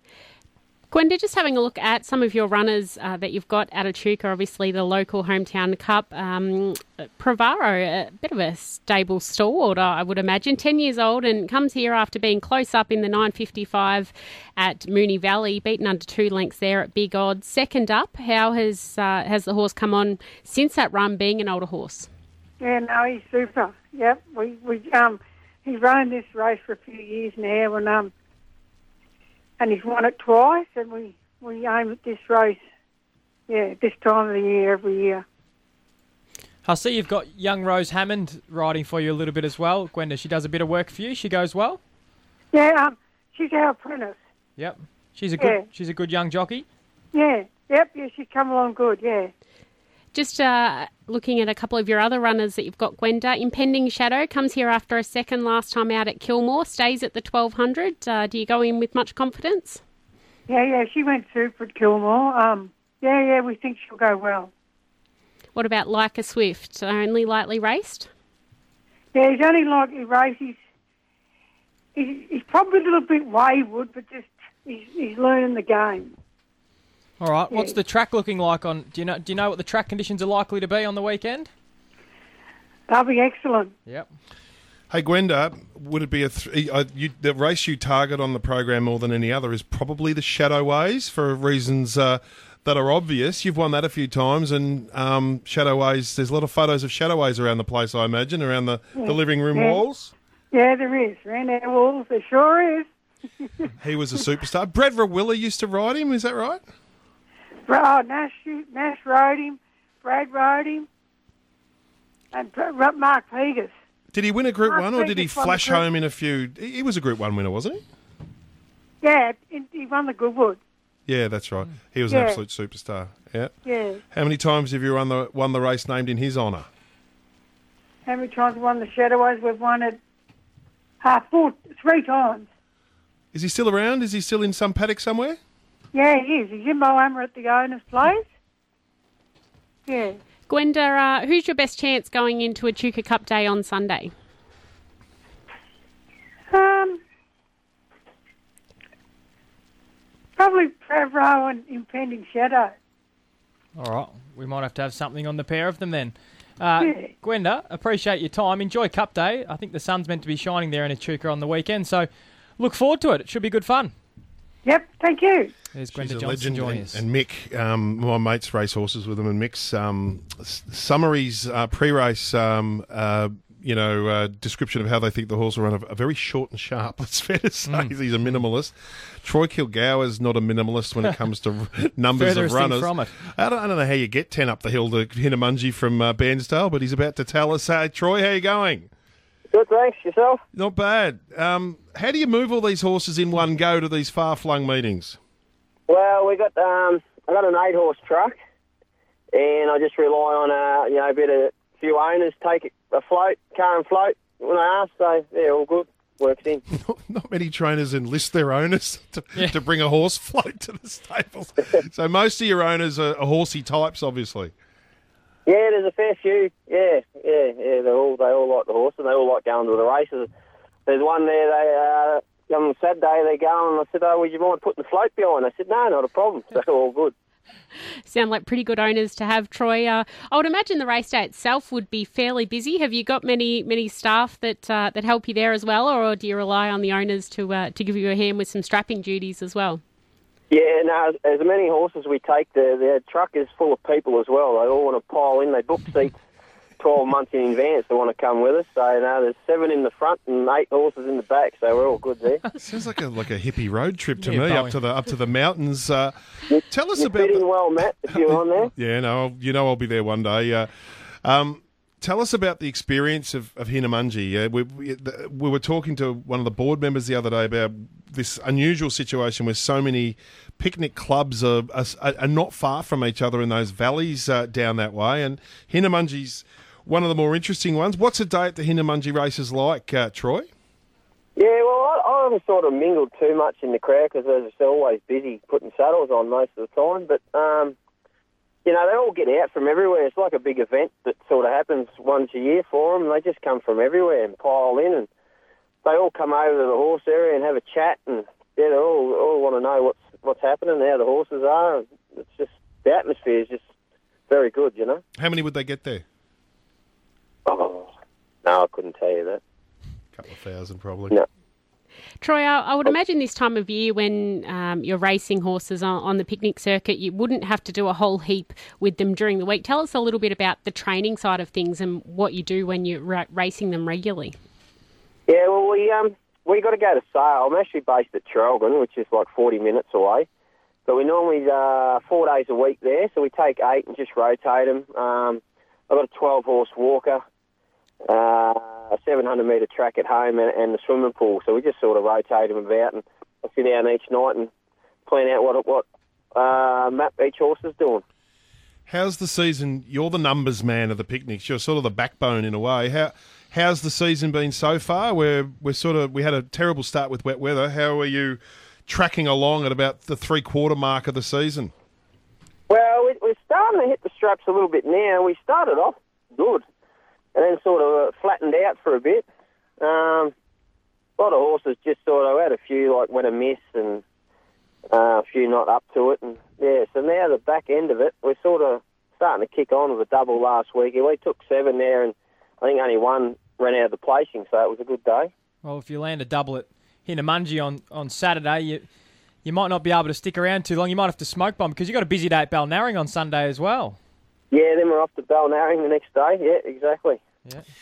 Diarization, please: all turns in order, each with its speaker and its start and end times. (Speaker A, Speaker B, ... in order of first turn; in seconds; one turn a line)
Speaker A: 0.9-22.1
Speaker B: 22.6-28.1
Speaker B: 29.6-32.6
Speaker B: 33.5-35.2
Speaker C: 36.6-41.8
Speaker B: 42.5-44.2
Speaker C: 44.6-46.7
Speaker B: 45.4-45.6
Speaker B: 47.1-49.3
Speaker A: 50.1-59.8
Speaker B: 60.5-64.5
Speaker A: 65.5-68.1
Speaker B: 69.1-70.6
Speaker B: 72.0-76.2
Speaker C: 77.2-81.5
Speaker B: 77.5-77.8
Speaker B: 82.9-83.7
Speaker C: 83.9-84.1
Speaker D: 84.9-100.1
Speaker B: 99.0-99.8
Speaker B: 100.5-102.9
Speaker B: 103.4-103.7
Speaker D: 103.8-106.6
Speaker B: 107.7-110.9
Speaker B: 112.3-113.7
Speaker D: 114.1-117.8
Speaker B: 114.7-115.8
Speaker B: 119.0-120.6
Speaker D: 121.1-123.5
Speaker B: 122.1-122.4
Speaker B: 123.7-124.0
Speaker D: 124.1-126.7
Speaker B: 128.1-130.0
Speaker B: 131.0-132.5
Speaker D: 133.3-135.4
Speaker B: 135.9-138.3
Speaker B: 139.9-140.2
Speaker A: 140.5-144.1
Speaker B: 146.5-147.0
Speaker B: 150.4-152.8
Speaker C: 153.8-163.9
Speaker B: 156.8-157.1
Speaker B: 164.7-165.5
Speaker C: 165.7-167.0
Speaker D: 165.9-188.9
Speaker C: 177.7-178.4
Speaker C: 182.1-183.2
Speaker E: 189.5-190.4
Speaker D: 190.5-195.2
Speaker E: 195.9-198.4
Speaker E: 199.3-206.6
Speaker D: 206.7-214.5
Speaker E: 215.5-220.3
Speaker E: 220.9-227.1
Speaker A: 228.1-239.8
Speaker E: 240.5-246.2
Speaker E: 246.8-252.4
Speaker D: 252.6-256.1
Speaker C: 254.2-254.8
Speaker E: 256.5-258.7
Speaker D: 256.7-257.5
Speaker D: 258.0-280.5
Speaker E: 281.4-287.8
Speaker E: 288.6-295.1
Speaker E: 295.8-303.6
Speaker E: 304.3-305.0
Speaker D: 305.2-306.0
Speaker E: 307.5-307.9
Speaker E: 308.4-309.4
Speaker D: 310.1-311.1
Speaker A: 312.2-324.4
Speaker E: 325.3-330.3
Speaker E: 330.9-337.2
Speaker E: 338.1-344.5
Speaker E: 345.1-348.0
Speaker D: 348.9-361.7
Speaker E: 362.7-366.6
Speaker E: 367.4-369.3
Speaker E: 369.8-370.3
Speaker E: 371.2-374.0
Speaker E: 374.9-385.3
Speaker C: 385.6-388.9
Speaker C: 389.4-394.0
Speaker E: 394.5-397.2